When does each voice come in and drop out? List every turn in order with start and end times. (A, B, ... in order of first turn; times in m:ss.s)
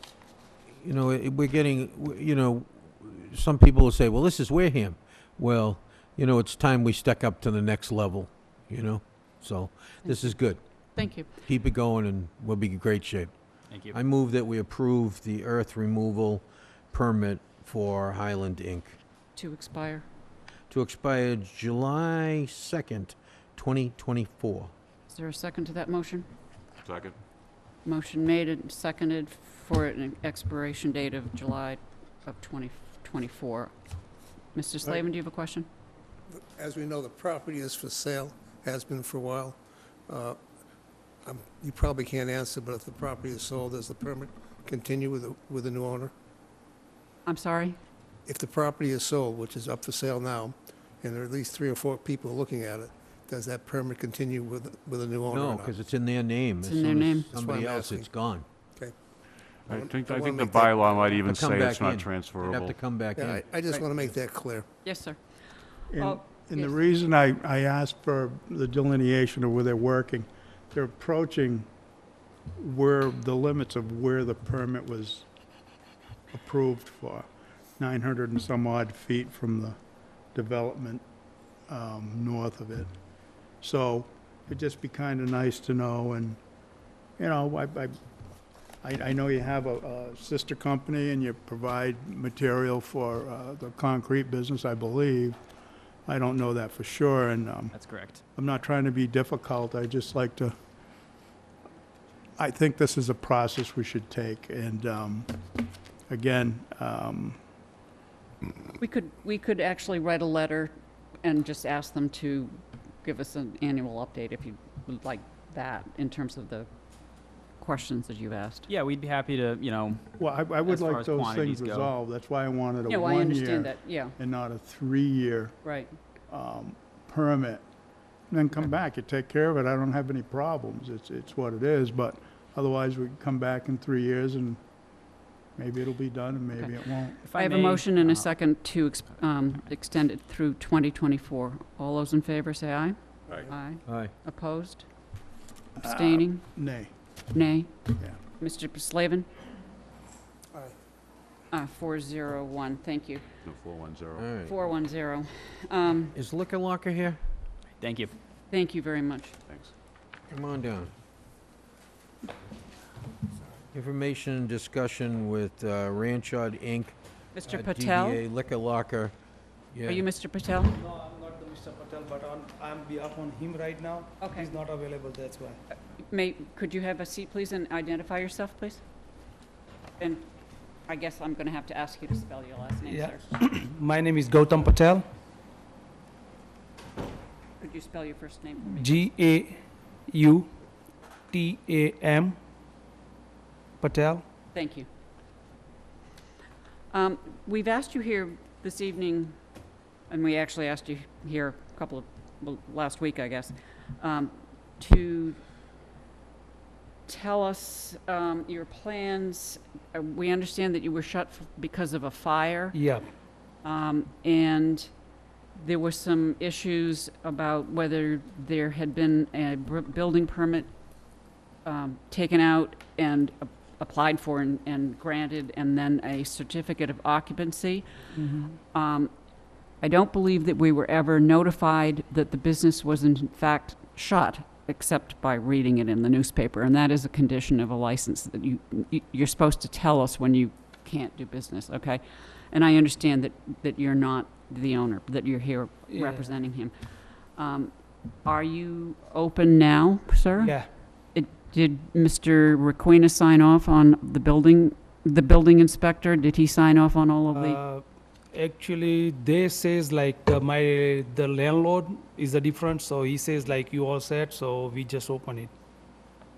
0:00.8-0:10.6 A
0:10.1-0:10.3 B
0:11.0-0:11.3 B
0:11.4-0:13.3 A
0:13.7-0:14.0 C
0:13.9-0:19.0 A
0:19.4-0:20.0 B
0:20.7-0:24.7 A
0:25.1-0:26.3 B
0:26.8-0:27.2 D
0:27.8-0:33.7 B
0:34.6-0:35.7 B
0:36.4-0:39.5 E
0:41.3-0:46.1 E
0:47.3-0:47.8 B
0:48.3-0:55.8 E
0:55.3-0:58.4 A
0:56.6-0:57.3 B
0:57.3-0:58.1 E
0:59.7-1:02.8 D
0:59.7-1:01.0 E
1:01.2-1:03.4 A
1:03.2-1:04.7 E
1:04.8-1:05.2 B
1:05.9-1:11.7 F
1:06.0-1:07.0 B
1:12.6-1:15.3 F
1:16.3-1:17.3 F
1:17.8-1:19.8 F
1:20.3-1:21.0 F
1:21.7-1:22.9 F
1:23.6-1:26.4 F
1:27.2-1:28.0 F
1:28.8-1:35.4 F
1:36.1-1:37.7 F
1:37.7-1:38.2 C
1:38.4-1:40.6 F
1:42.4-1:45.3 F
1:46.1-1:47.4 F
1:48.8-1:50.7 B
1:51.2-1:56.7 B
1:57.6-1:58.7 B
1:58.7-2:00.0 C
2:00.2-2:05.6 F
2:00.6-2:01.9 C
2:02.9-2:04.2 B
2:05.6-2:05.9 B
2:06.3-2:07.6 F
2:08.3-2:14.6 F
2:15.6-2:17.2 F
2:17.2-2:18.3 C
2:17.3-2:24.8 B
2:23.9-2:24.1 A
2:25.8-2:26.9 F
2:25.8-2:26.4 B
2:27.3-2:27.7 B
2:28.4-2:29.3 B
2:31.5-2:33.2 B
2:33.4-2:34.3 D
2:34.2-2:34.5 A
2:34.5-2:36.1 B
2:36.1-2:37.2 A
2:37.8-2:38.1 C
2:38.5-2:39.4 B
2:40.3-2:40.9 A
2:43.7-2:49.1 A
2:47.4-2:48.2 B
2:49.7-2:50.0 A
2:49.9-2:50.8 B
2:50.8-2:55.6 G
2:54.2-2:54.5 B
2:56.1-2:58.8 B
3:00.0-3:00.2 B
3:00.9-3:03.2 B
3:02.8-3:05.0 G
3:07.6-3:09.0 B
3:08.7-3:10.5 G
3:11.3-3:12.4 G
3:13.8-3:14.2 G
3:14.5-3:14.9 B
3:16.9-3:19.4 B
3:20.1-3:25.4 B
3:27.1-3:32.8 B
3:32.7-3:33.1 G
3:33.6-3:34.9 B
3:35.6-3:40.7 B
3:41.6-3:49.1 B
3:49.8-4:06.7 B
4:05.9-4:06.3 G
4:07.4-4:07.7 B
4:08.2-4:10.6 B
4:10.4-4:10.7 G
4:11.1-4:17.6 B
4:17.3-4:25.5 G